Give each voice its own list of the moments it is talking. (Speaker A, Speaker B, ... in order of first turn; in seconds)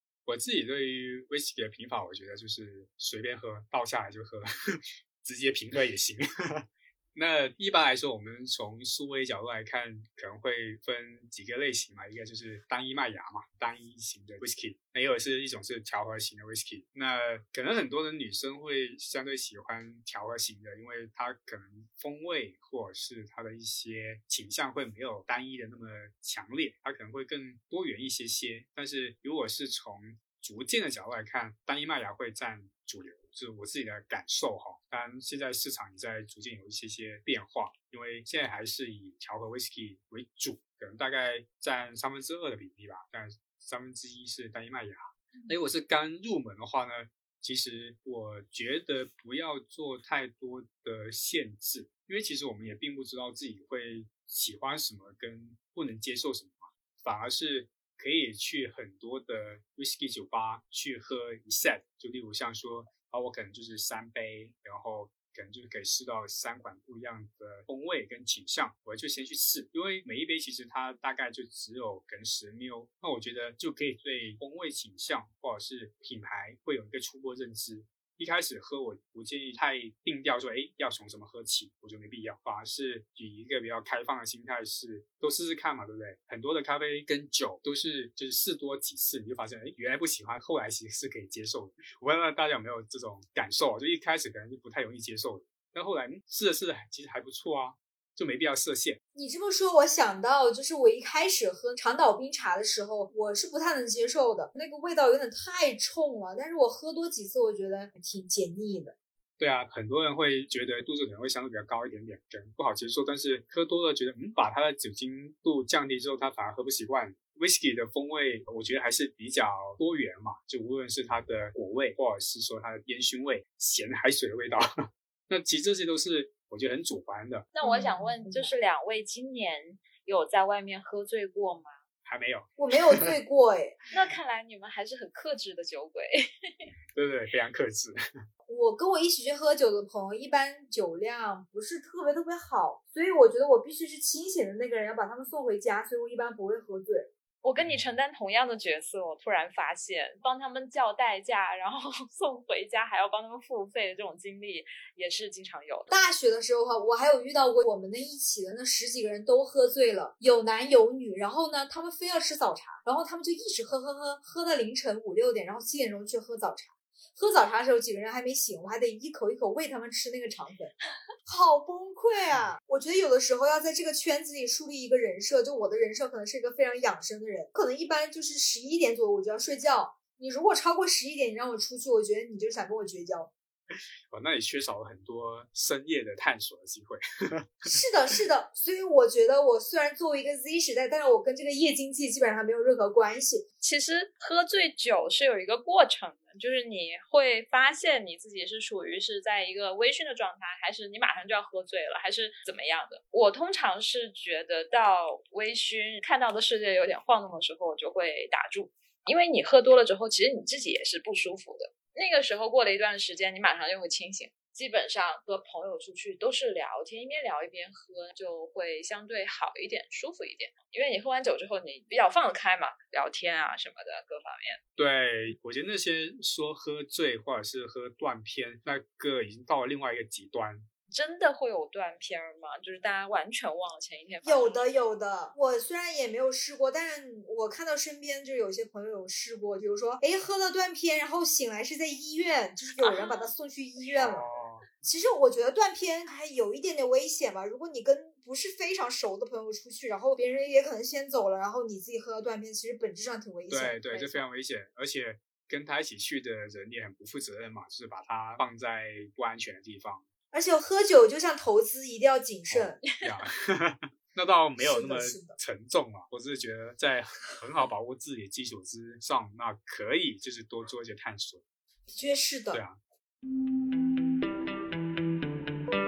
Speaker A: 0.3-99.0, 109.4-124.7, 125.3-127.5, 132.1-133.0, 136.9-138.0, 147.6-147.9, 183.7-187.7, 224.8-230.7, 244.0-244.7, 253.5-260.1, 262.5-271.4, 272.5-272.8
Speaker B: 99.2-109.0, 127.6-128.5, 132.6-133.8, 138.5-147.1, 155.9-170.7, 171.3-183.3, 187.7-193.4, 234.2-244.3, 244.8-254.2, 260.3-262.8, 264.6-265.4, 271.9-272.6
Speaker C: 127.6-131.7, 133.9-136.7, 147.4-155.9, 193.6-224.6, 230.9-234.7, 242.8-243.3